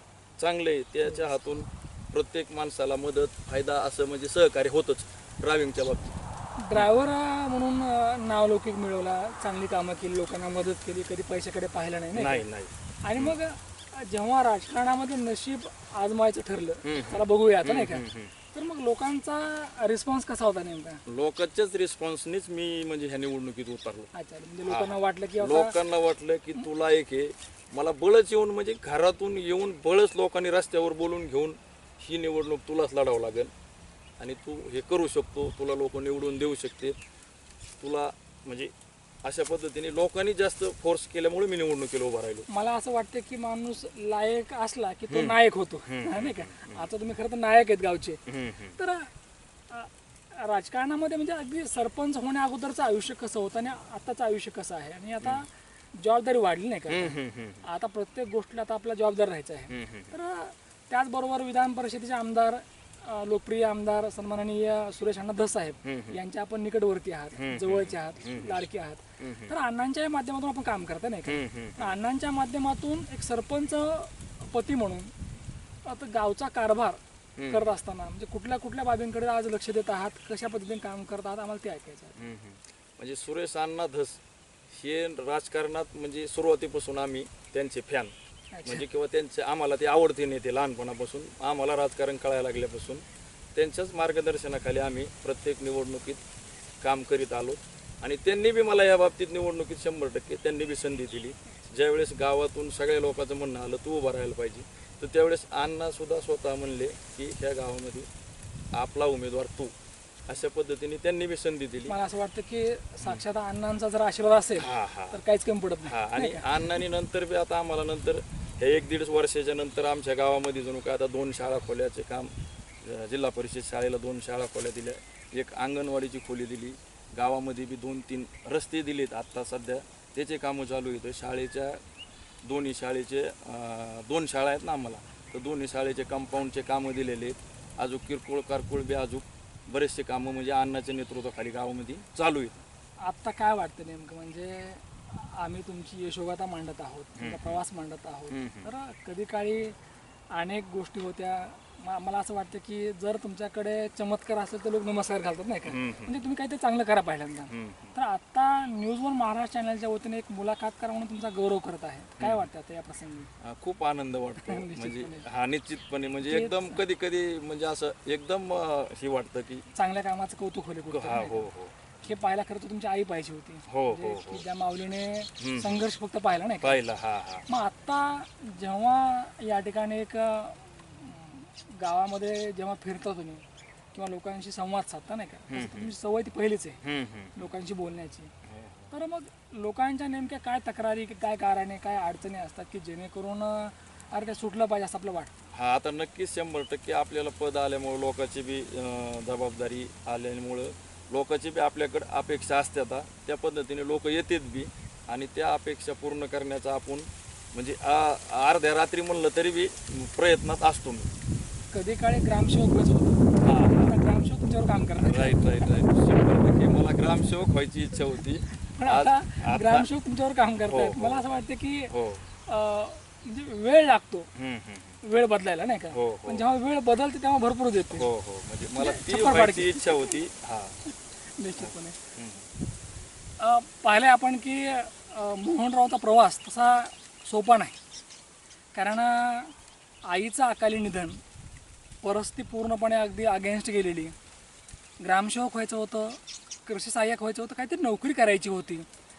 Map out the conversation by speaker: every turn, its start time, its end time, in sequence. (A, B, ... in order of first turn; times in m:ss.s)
0:00.4-0:06.2 A
0:06.6-0:12.4 B
0:12.1-0:13.4 A
0:13.0-0:21.0 B
0:16.8-0:18.3 A
0:21.1-0:24.1 A
0:24.1-0:25.8 B
0:24.6-0:33.5 A
0:34.2-0:37.0 A
0:37.8-0:38.7 A
0:39.2-0:42.5 A
0:42.5-0:48.2 B
0:45.1-0:45.4 A
0:45.9-0:46.8 A
0:48.3-0:48.8 A
0:48.8-0:49.1 B
0:49.7-1:15.1 B
0:56.9-0:57.6 A
0:59.7-1:00.1 A
1:05.8-1:06.2 A
1:07.4-1:08.6 A
1:09.2-1:09.5 A
1:11.3-1:12.0 A
1:15.8-1:22.2 B
1:17.4-1:17.8 A
1:22.2-1:24.2 A
1:24.7-1:28.1 A
1:28.5-1:28.8 B
1:28.6-1:33.0 A
1:33.6-1:36.2 A
1:36.8-1:48.1 A
1:48.7-1:49.7 A
1:50.3-1:52.0 A
1:51.9-1:56.6 B
1:54.6-1:55.2 A
1:55.8-2:11.8 A
2:12.4-2:22.6 A
2:23.0-2:29.8 B
2:27.2-2:27.6 A
2:28.3-2:28.7 A
2:30.3-2:43.3 B
2:35.7-2:36.2 A
2:37.5-2:38.0 A
2:42.2-2:42.5 A
2:43.4-2:49.7 A
2:44.4-2:45.2 B
2:46.2-2:46.8 B
2:49.7-2:51.5 B
2:50.9-2:52.2 A
2:52.0-2:56.8 B
2:53.7-2:54.4 A
2:55.4-2:55.8 A
2:56.6-2:57.5 A
2:57.5-3:06.8 B
3:05.5-3:05.9 A
3:06.8-3:07.5 A
3:07.4-3:08.3 B
3:08.5-3:08.9 A
3:08.9-3:15.3 B
3:15.5-3:31.1 A
3:31.7-3:35.7 B
3:33.4-3:34.2 A
3:35.0-3:39.9 A
3:38.8-3:41.9 B
3:40.7-3:41.2 A
3:41.9-3:42.2 A
3:42.5-3:44.3 B
3:44.4-3:45.0 A
3:45.0-3:48.1 B
3:45.9-3:46.4 A
3:47.9-3:50.8 A
3:48.8-3:50.2 B
3:51.4-3:52.0 B
3:51.6-3:52.5 A
3:53.4-3:57.8 B
3:58.8-3:59.5 B
4:00.1-4:01.2 B
4:02.0-4:04.1 B
4:05.0-4:08.9 B